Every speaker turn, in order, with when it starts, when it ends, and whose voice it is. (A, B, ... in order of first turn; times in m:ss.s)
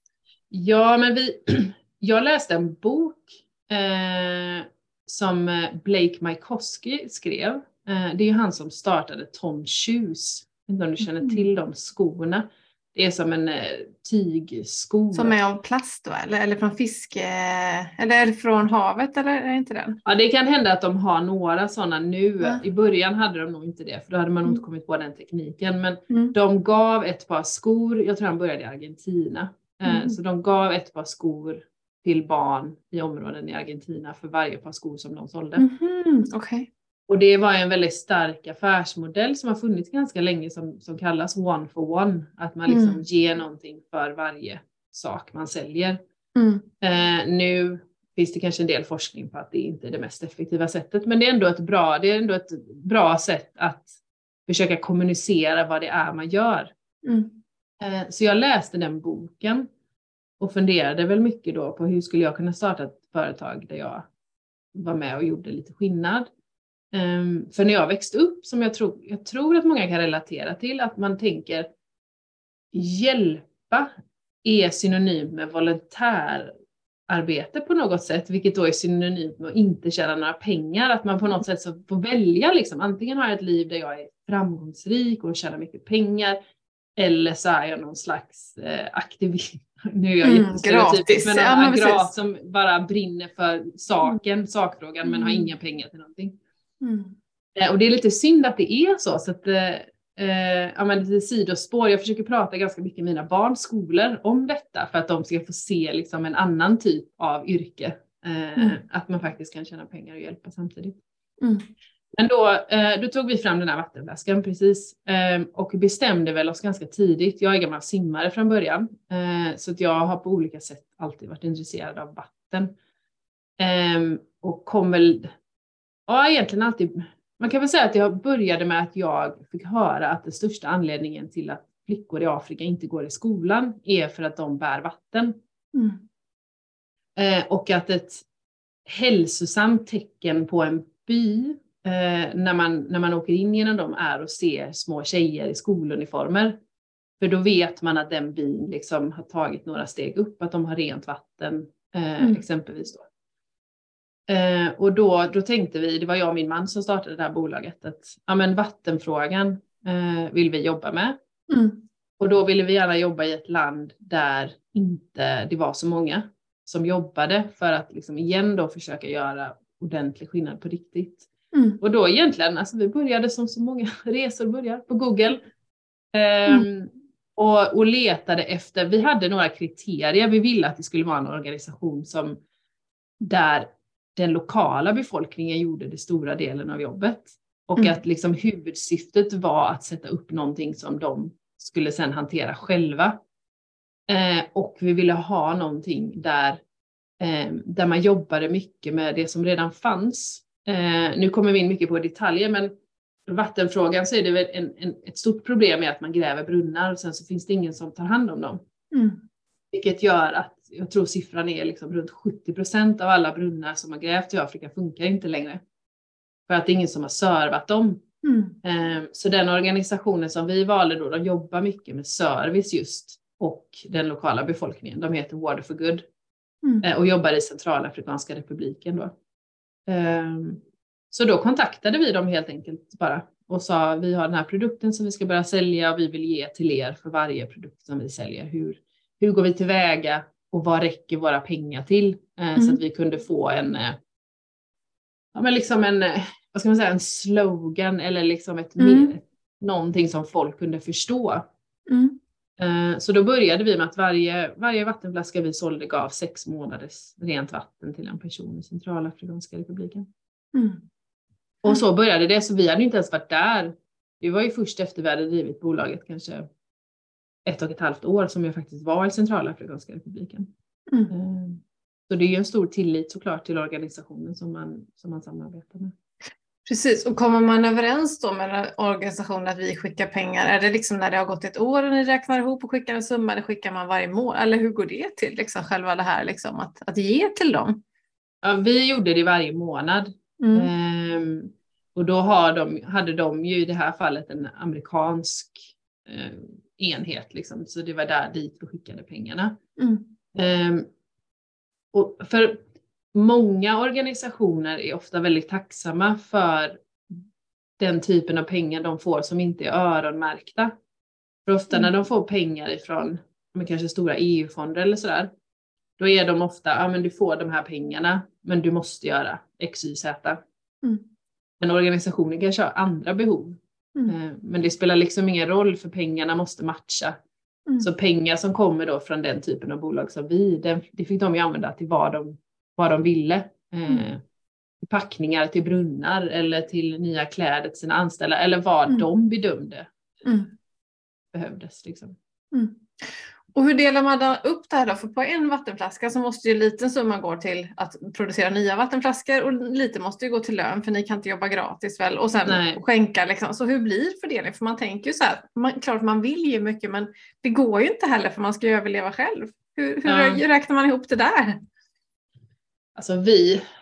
0:00.5-0:15.4 A
0:11.0-0:11.5 B
0:15.1-0:20.0 B
0:20.0-0:35.6 A
0:26.1-0:26.3 B
0:29.8-0:30.2 B
0:35.6-0:36.7 B
0:37.1-0:46.0 A
0:42.7-0:43.0 B
0:46.3-0:46.7 B
0:46.8-0:53.9 A
0:54.4-0:56.7 A
0:57.0-0:57.4 B
0:57.8-0:59.7 A
1:00.4-1:04.1 A
1:04.7-1:06.3 A
1:06.9-1:11.7 A
1:12.7-1:13.9 A
1:14.4-1:16.5 A
1:17.1-1:26.4 A
1:27.0-1:36.4 A
1:30.2-1:32.1 B
1:35.0-1:35.5 B
1:36.8-1:37.2 B
1:37.6-1:51.0 A
1:51.4-1:51.6 B
1:52.2-2:02.7 A
2:03.6-2:05.3 A
2:06.1-2:15.4 A
2:15.7-2:16.0 B
2:17.2-2:18.2 A
2:18.8-2:26.6 A
2:27.2-2:33.1 A
2:34.3-2:41.2 A
2:41.5-2:41.8 B
2:42.2-2:51.3 A
2:51.5-2:51.8 B
2:51.8-2:55.4 A
2:56.1-3:02.4 A
3:03.2-3:13.2 A
3:14.1-3:16.6 A
3:17.2-3:22.7 A
3:23.3-3:28.6 A
3:28.9-3:29.2 B
3:29.7-3:35.6 A
3:36.5-3:38.0 A
3:38.2-3:38.6 B
3:38.6-3:46.1 A
3:46.8-3:49.1 A
3:49.9-4:04.0 A
4:05.3-4:11.4 A
4:08.8-4:09.2 B
4:11.9-4:12.2 B
4:12.6-4:20.1 A
4:20.5-4:20.8 B
4:21.6-4:26.5 A
4:27.4-4:30.5 A
4:31.1-4:35.9 A
4:36.6-4:47.8 B
4:48.4-4:59.6 A
4:50.4-4:50.7 B
4:59.8-5:00.1 B
5:00.3-5:00.9 A
5:01.9-5:02.6 A
5:03.1-5:07.2 A
5:07.8-5:10.7 A
5:11.4-5:15.3 A
5:16.0-5:20.4 A
5:21.6-5:27.2 A
5:27.8-5:34.2 A
5:34.8-5:39.9 A
5:40.2-5:40.5 B
5:41.3-5:42.2 A
5:42.5-6:01.6 B
5:52.4-5:52.8 A
6:00.0-6:00.4 A
6:03.0-6:03.6 A